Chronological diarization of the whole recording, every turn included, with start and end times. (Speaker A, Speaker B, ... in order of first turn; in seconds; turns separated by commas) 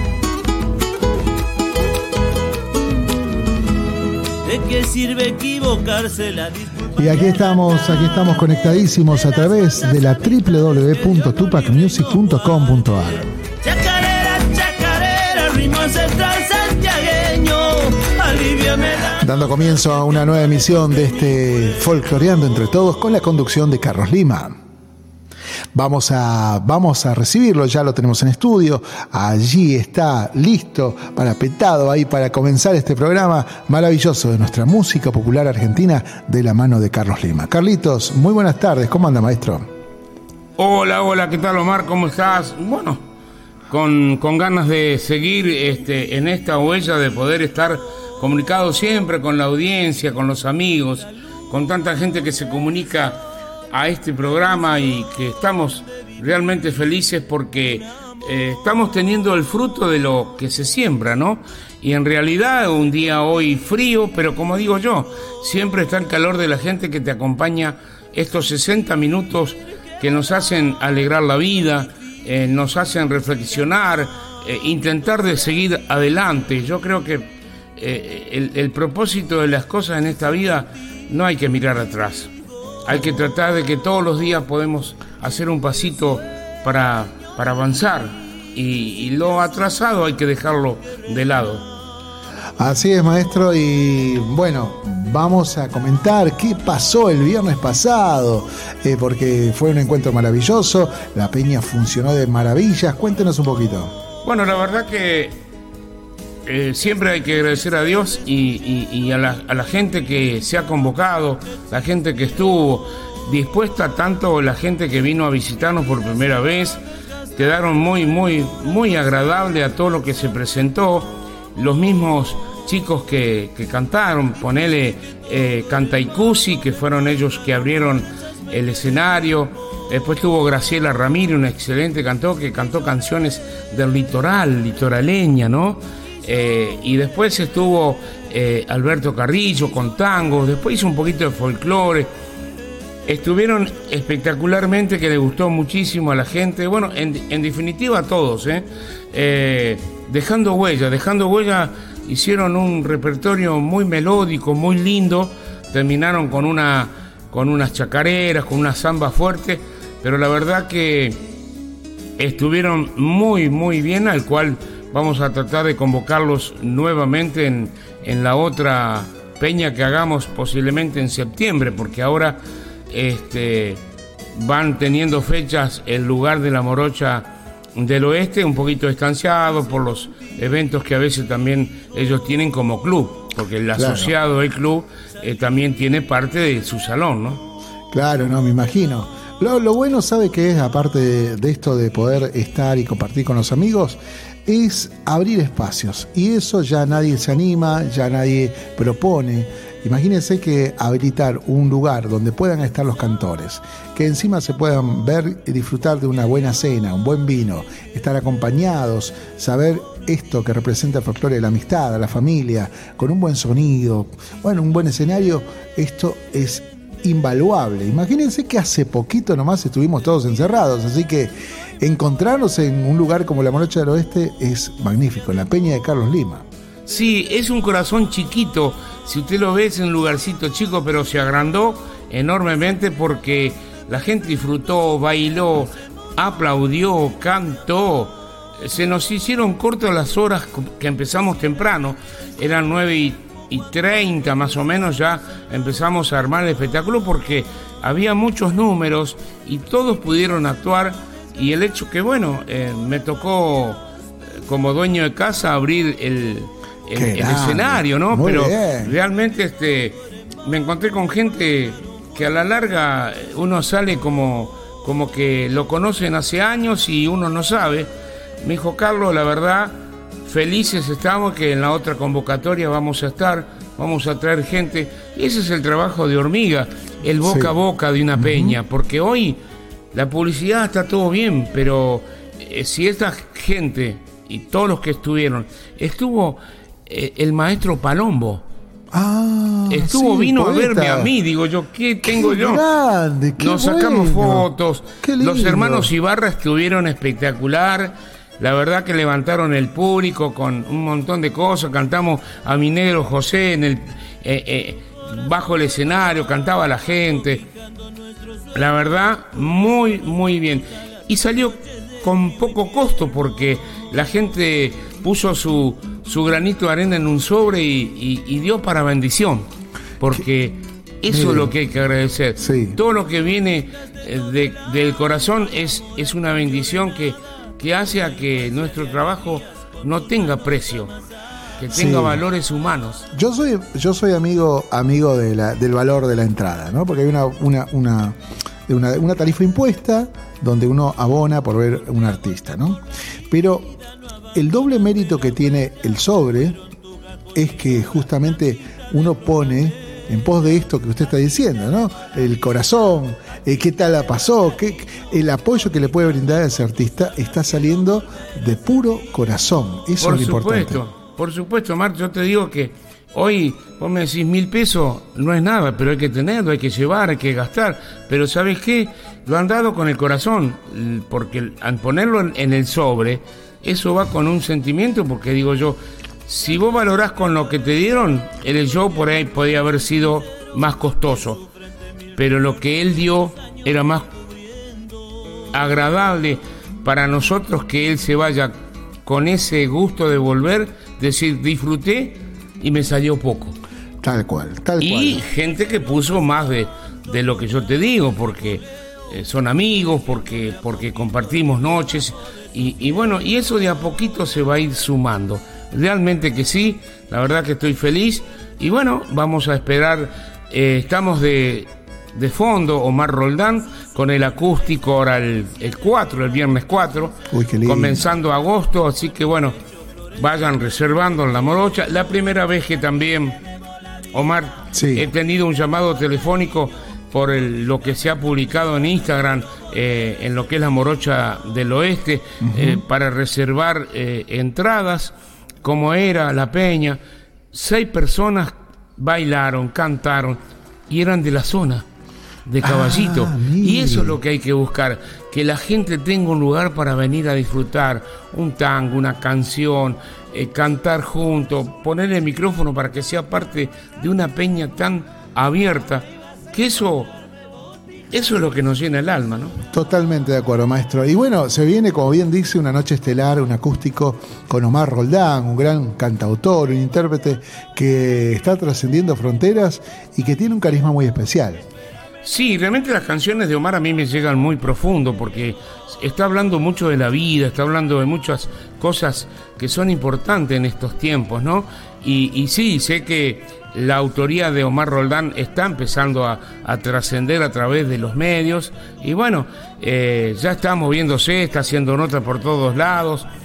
Speaker A: 4.4-7.5, Speaker B: 7.0-13.3, Speaker A: 9.0-13.1, Speaker A: 13.6-19.2, Speaker B: 19.2-24.6, Speaker B: 25.8-39.7, Speaker C: 40.6-43.0, Speaker C: 43.7-82.3, Speaker C: 82.8-91.7, Speaker B: 92.6-103.9, Speaker C: 104.2-105.4, Speaker C: 106.5-116.8, Speaker C: 117.3-142.1, Speaker C: 143.1-161.2, Speaker C: 162.2-172.4, Speaker C: 172.9-173.8, Speaker C: 174.3-187.4, Speaker B: 183.8-184.1, Speaker B: 187.9-226.5, Speaker C: 226.9-253.8, Speaker C: 254.5-267.9, Speaker B: 256.9-259.0, Speaker C: 268.4-279.4, Speaker B: 277.2-277.6, Speaker B: 278.2-278.6, Speaker C: 279.9-288.4, Speaker B: 288.9-291.1, Speaker C: 289.7-292.6, Speaker B: 292.1-294.5, Speaker C: 293.4-307.5, Speaker B: 295.0-295.9, Speaker C: 308.5-319.5, Speaker C: 320.0-330.9, Speaker B: 321.1-321.5, Speaker B: 322.4-322.8, Speaker C: 331.6-333.1, Speaker B: 331.7-332.2, Speaker B: 333.1-343.7, Speaker B: 344.3-346.6, Speaker B: 347.4-360.8, Speaker C: 360.0-381.5, Speaker C: 382.2-384.1, Speaker C: 385.5-393.6, Speaker B: 394.0-395.2, Speaker C: 394.8-419.6, Speaker B: 417.3-418.1, Speaker C: 420.2-423.4, Speaker C: 424.1-437.0, Speaker B: 424.7-425.1, Speaker B: 432.4-432.8, Speaker C: 437.5-441.9, Speaker C: 442.5-457.1, Speaker B: 442.6-444.2, Speaker C: 458.1-459.6, Speaker B: 459.7-471.6, Speaker C: 472.2-493.3